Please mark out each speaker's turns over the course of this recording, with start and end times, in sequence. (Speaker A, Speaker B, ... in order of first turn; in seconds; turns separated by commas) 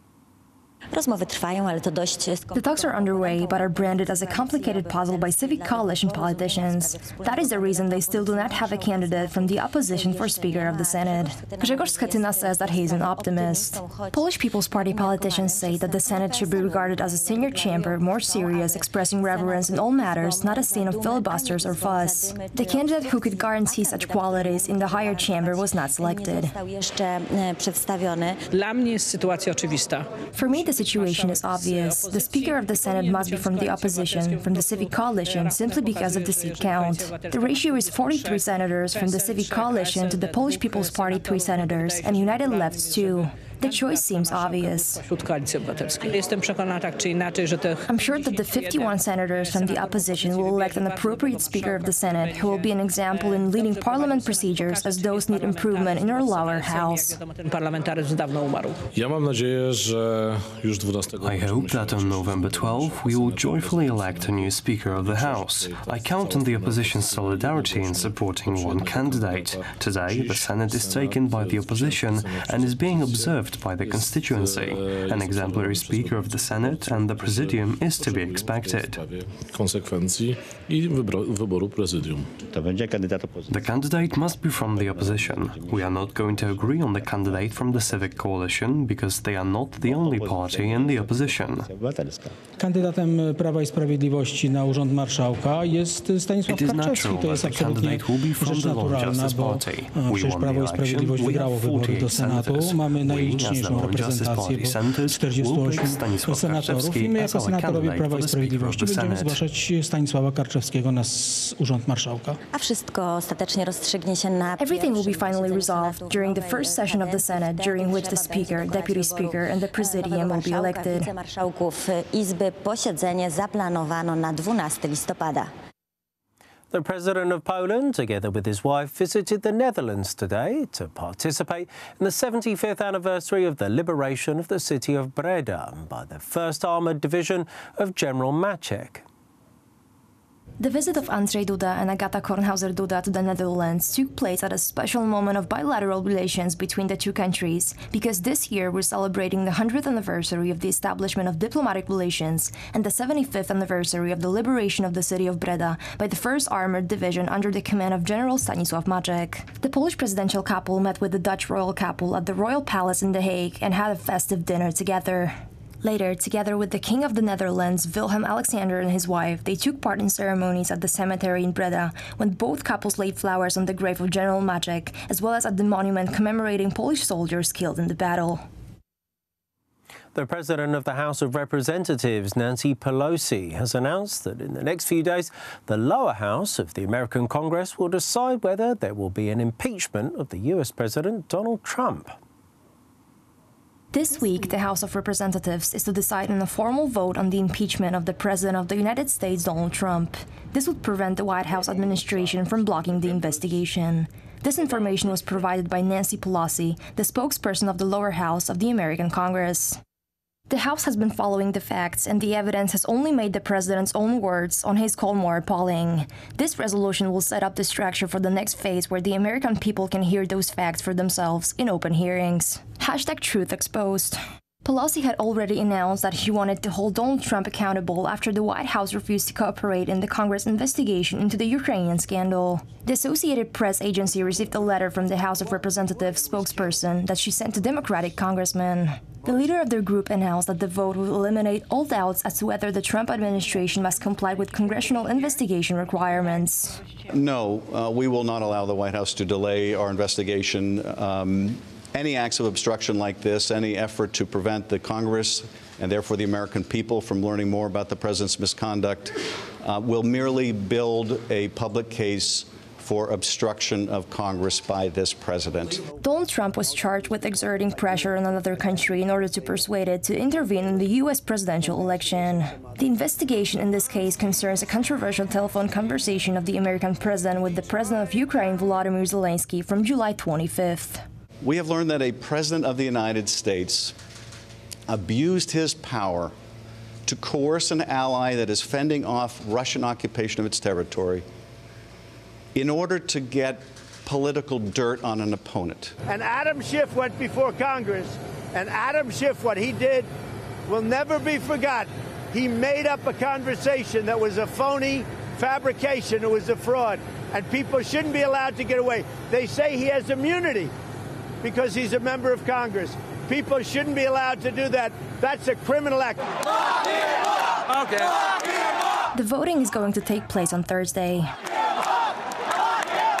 Speaker A: 0.9-28.4, Speaker B: 2.5-26.6, Speaker C: 28.5-58.8, Speaker B: 30.3-45.0, Speaker B: 47.9-57.2, Speaker D: 58.9-82.4, Speaker E: 61.2-79.0, Speaker F: 82.5-88.2, Speaker E: 83.5-91.7, Speaker F: 89.8-92.4, Speaker G: 92.6-112.4, Speaker E: 96.5-109.4, Speaker A: 112.5-125.5, Speaker B: 114.6-121.1, Speaker H: 126.7-139.0, Speaker B: 140.6-178.4, Speaker H: 180.1-192.2, Speaker B: 193.9-209.8, Speaker B: 210.5-246.8, Speaker I: 247.0-265.9, Speaker B: 265.9-281.0, Speaker I: 281.4-283.9, Speaker I: 284.9-286.3, Speaker I: 287.1-291.2, Speaker I: 292.5-295.9, Speaker J: 296.1-300.1, Speaker J: 300.7-310.7, Speaker J: 311.4-316.2, Speaker B: 319.1-321.3